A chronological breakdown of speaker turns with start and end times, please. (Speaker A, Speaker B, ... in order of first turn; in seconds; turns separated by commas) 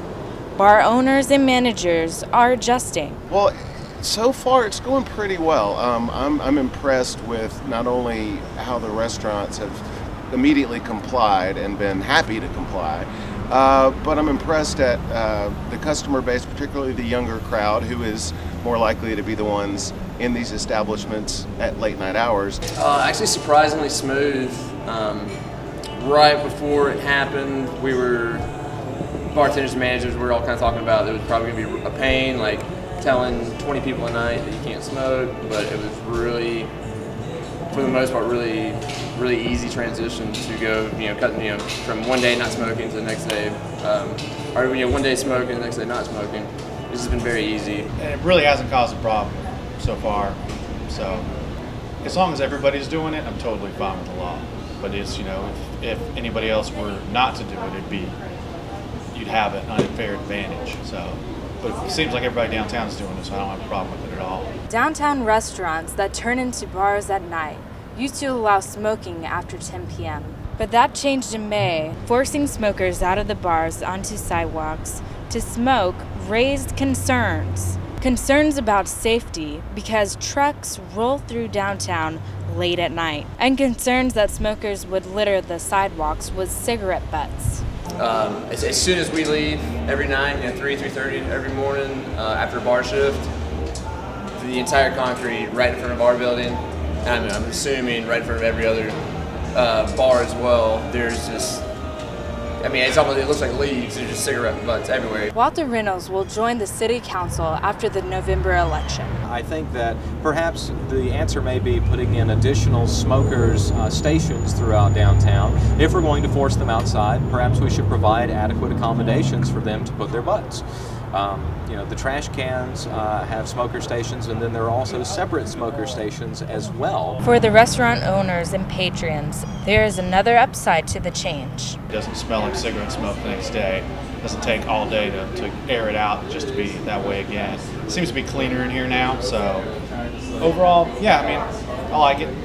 Speaker A: 0.6-3.2, Speaker B: 3.3-9.8, Speaker B: 10.3-22.6, Speaker C: 22.8-25.4, Speaker C: 26.0-28.5, Speaker C: 29.3-36.7, Speaker C: 37.7-47.9, Speaker D: 48.0-51.3, Speaker D: 52.0-58.2, Speaker D: 59.1-64.5, Speaker A: 64.7-87.6, Speaker C: 88.0-93.3, Speaker C: 94.4-99.0, Speaker C: 99.5-101.7, Speaker C: 102.6-105.3, Speaker A: 105.3-109.1, Speaker E: 109.2-127.2, Speaker A: 127.2-131.8, Speaker D: 131.9-139.7, Speaker D: 140.4-142.3